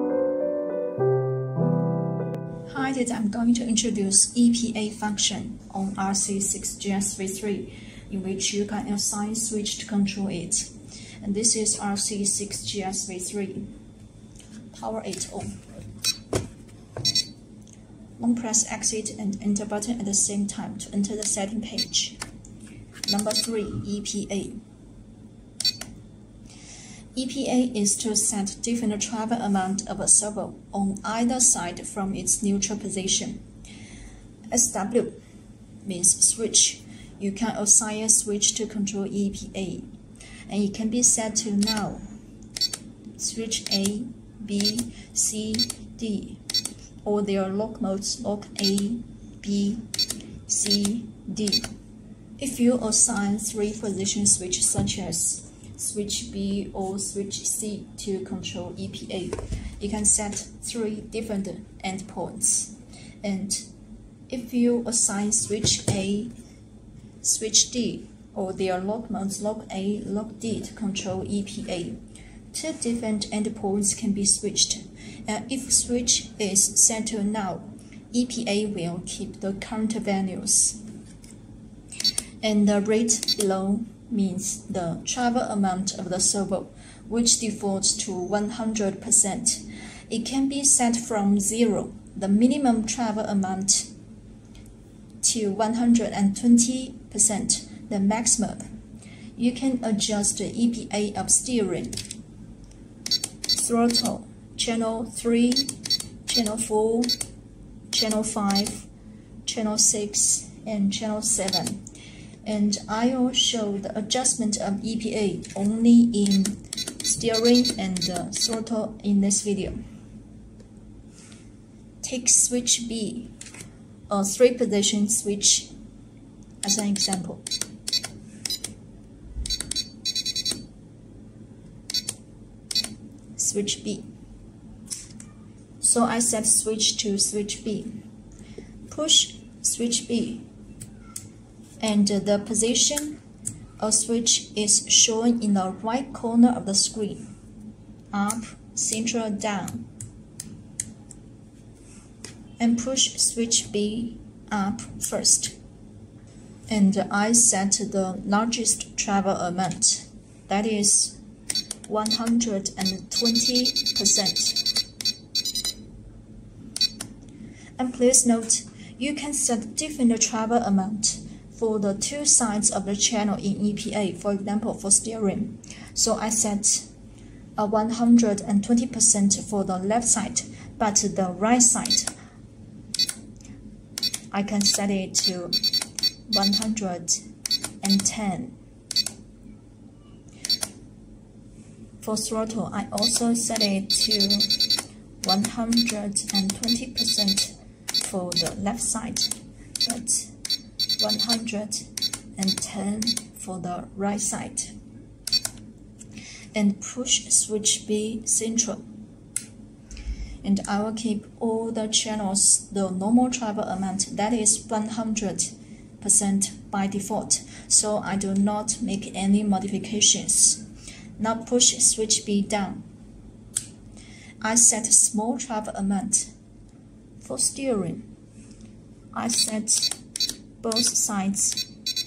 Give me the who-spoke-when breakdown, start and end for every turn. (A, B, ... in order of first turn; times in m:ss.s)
0:02.7-0:13.7 A
0:14.7-0:15.6 A
0:18.2-0:22.2 A
0:23.0-0:24.6 A
0:27.1-0:33.4 A
0:34.5-0:35.2 A
0:35.8-0:39.9 A
0:40.5-0:42.0 A
0:43.2-0:46.4 A
0:47.0-0:49.9 A
0:50.5-0:51.7 A
0:52.4-1:03.7 A
1:04.3-1:06.3 A
1:07.2-1:12.0 A
1:12.5-1:20.8 A
1:22.4-1:33.9 A
1:35.2-1:38.6 A
1:39.4-1:42.0 A
1:43.5-1:47.1 A
1:47.9-1:48.9 A
1:49.4-1:51.8 A
1:52.4-1:59.8 A
2:02.0-2:03.3 A
2:04.1-2:05.7 A
2:06.6-2:07.5 A
2:13.4-2:14.0 A
2:15.8-2:18.0 A
2:18.9-2:20.4 A
2:21.8-2:23.2 A
2:23.8-2:27.2 A
2:28.1-2:29.9 A
2:32.6-2:35.6 A
2:36.7-2:41.2 A
2:41.8-2:44.6 A
2:47.8-2:56.9 A
2:57.6-3:02.1 A
3:04.3-3:05.6 A
3:06.3-3:07.2 A
3:07.8-3:08.6 A
3:12.0-3:14.6 A
3:15.2-3:20.3 A
3:21.0-3:24.7 A
3:26.5-3:28.8 A
3:30.4-3:40.6 A
3:41.2-3:42.8 A
3:44.4-3:46.3 A
3:47.2-3:48.1 A
3:49.1-3:49.9 A
3:50.6-3:51.6 A